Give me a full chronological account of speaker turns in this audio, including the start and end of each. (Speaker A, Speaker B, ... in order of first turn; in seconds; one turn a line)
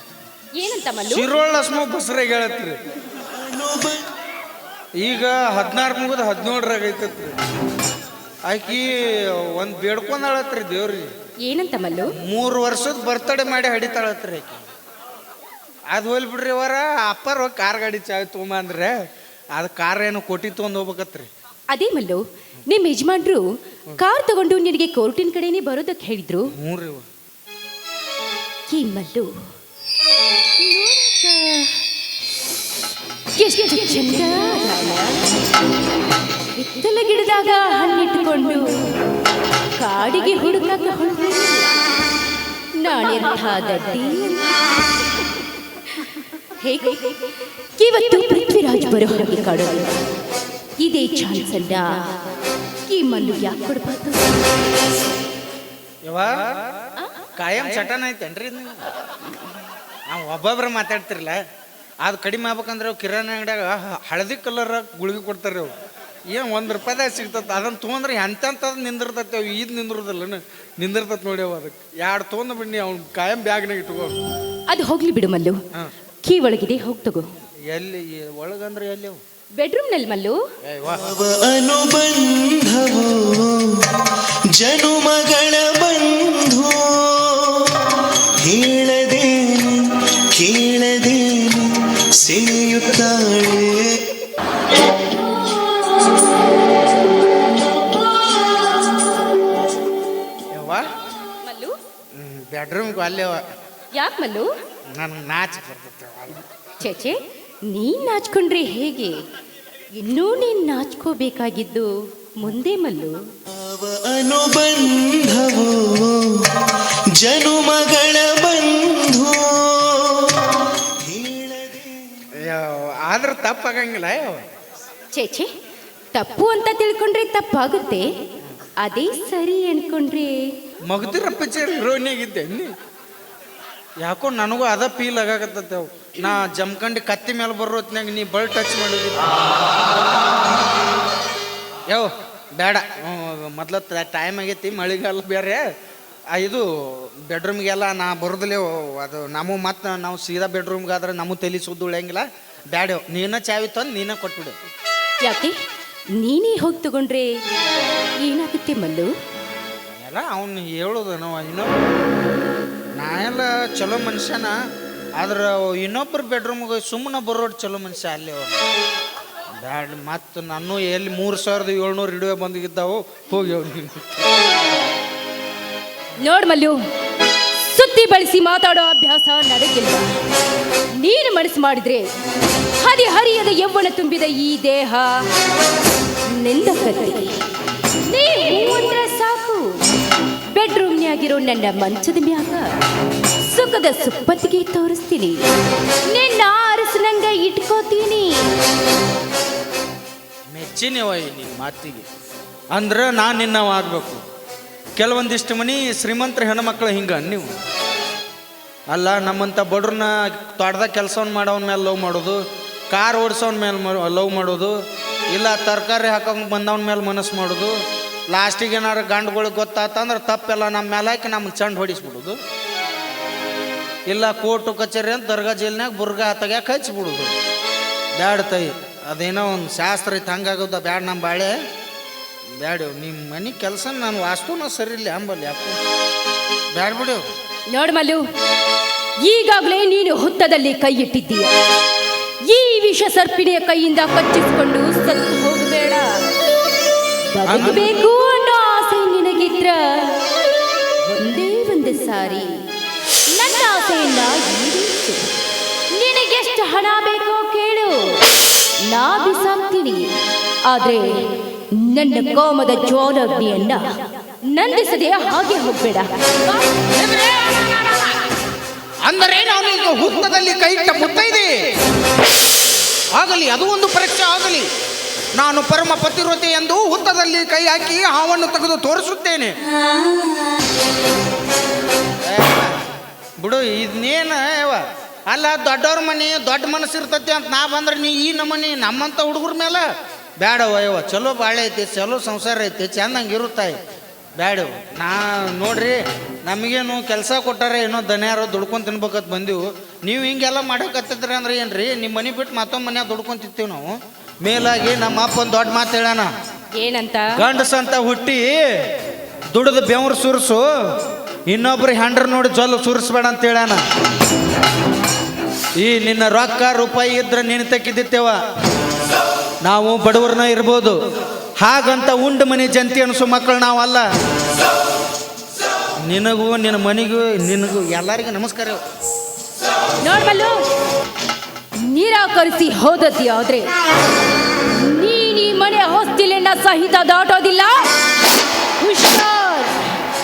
Speaker A: 0.5-1.3
Speaker B: 1.1-2.8
Speaker C: 3.3-4.0
Speaker B: 5.0-7.3
Speaker B: 8.5-11.1
Speaker A: 11.4-12.1
Speaker B: 12.2-14.6
Speaker B: 15.9-18.9
Speaker B: 19.5-21.3
Speaker A: 21.7-23.4
Speaker A: 24.0-26.5
Speaker B: 26.6-27.0
Speaker A: 28.7-29.3
Speaker A: 30.6-31.8
Speaker A: 33.4-35.3
Speaker A: 36.6-38.8
Speaker A: 39.8-41.8
Speaker A: 42.8-44.5
Speaker A: 45.9-49.9
Speaker A: 50.8-52.1
Speaker A: 52.9-54.4
Speaker B: 56.0-56.4
Speaker B: 57.4-58.8
Speaker B: 60.1-61.4
Speaker B: 62.0-65.7
Speaker B: 66.3-74.2
Speaker A: 74.7-75.6
Speaker A: 76.2-77.2
Speaker B: 77.7-79.2
Speaker A: 79.6-80.4
Speaker B: 80.6-81.0
Speaker C: 81.1-87.8
Speaker C: 88.4-94.0
Speaker B: 100.5-100.8
Speaker A: 101.4-101.7
Speaker B: 102.2-103.3
Speaker A: 103.9-104.5
Speaker B: 105.0-106.4
Speaker A: 106.8-109.1
Speaker A: 110.0-113.1
Speaker C: 113.5-122.1
Speaker B: 122.4-124.4
Speaker A: 125.1-125.5
Speaker A: 126.1-128.1
Speaker A: 128.8-130.4
Speaker B: 130.9-132.7
Speaker B: 134.0-139.3
Speaker B: 141.9-145.6
Speaker B: 146.3-154.6
Speaker A: 155.2-155.5
Speaker A: 156.2-157.3
Speaker A: 158.2-159.1
Speaker B: 160.0-161.8
Speaker B: 163.0-164.5
Speaker B: 165.2-168.6
Speaker B: 169.6-174.1
Speaker A: 176.2-176.8
Speaker A: 177.7-180.1
Speaker A: 181.0-182.1
Speaker A: 182.8-185.2
Speaker A: 186.3-187.4
Speaker A: 188.1-189.8
Speaker A: 190.5-192.7
Speaker A: 193.5-195.4
Speaker A: 196.1-198.5
Speaker B: 200.5-202.0
Speaker B: 202.7-204.2
Speaker B: 205.0-207.5
Speaker B: 208.9-214.7
Speaker B: 215.3-217.8
Speaker B: 218.3-222.4
Speaker B: 224.1-227.3
Speaker B: 228.2-231.5
Speaker B: 232.6-235.8
Speaker B: 236.7-237.2
Speaker A: 237.7-238.2
Speaker A: 239.2-241.5
Speaker A: 242.5-246.2
Speaker A: 247.3-250.2
Speaker B: 247.4-247.8
Speaker A: 251.1-252.5
Speaker A: 253.3-255.3
Speaker A: 255.9-258.2
Speaker A: 258.9-260.0
Speaker A: 260.7-263.9
Speaker A: 264.5-266.9
Speaker B: 267.1-267.6
Speaker B: 269.0-271.6
Speaker B: 273.1-274.7
Speaker B: 275.3-279.5
Speaker B: 282.2-282.8
Speaker B: 283.4-289.9
Speaker B: 290.4-293.8
Speaker B: 294.4-306.3
Speaker A: 306.7-307.3
Speaker B: 307.3-308.7
Speaker B: 309.5-310.6
Speaker B: 311.5-313.8
Speaker B: 315.8-318.4
Speaker B: 319.6-320.9
Speaker B: 321.6-324.0
Speaker B: 326.1-328.8
Speaker A: 330.0-330.6
Speaker A: 331.8-333.7
Speaker A: 334.7-337.9
Speaker A: 338.8-339.8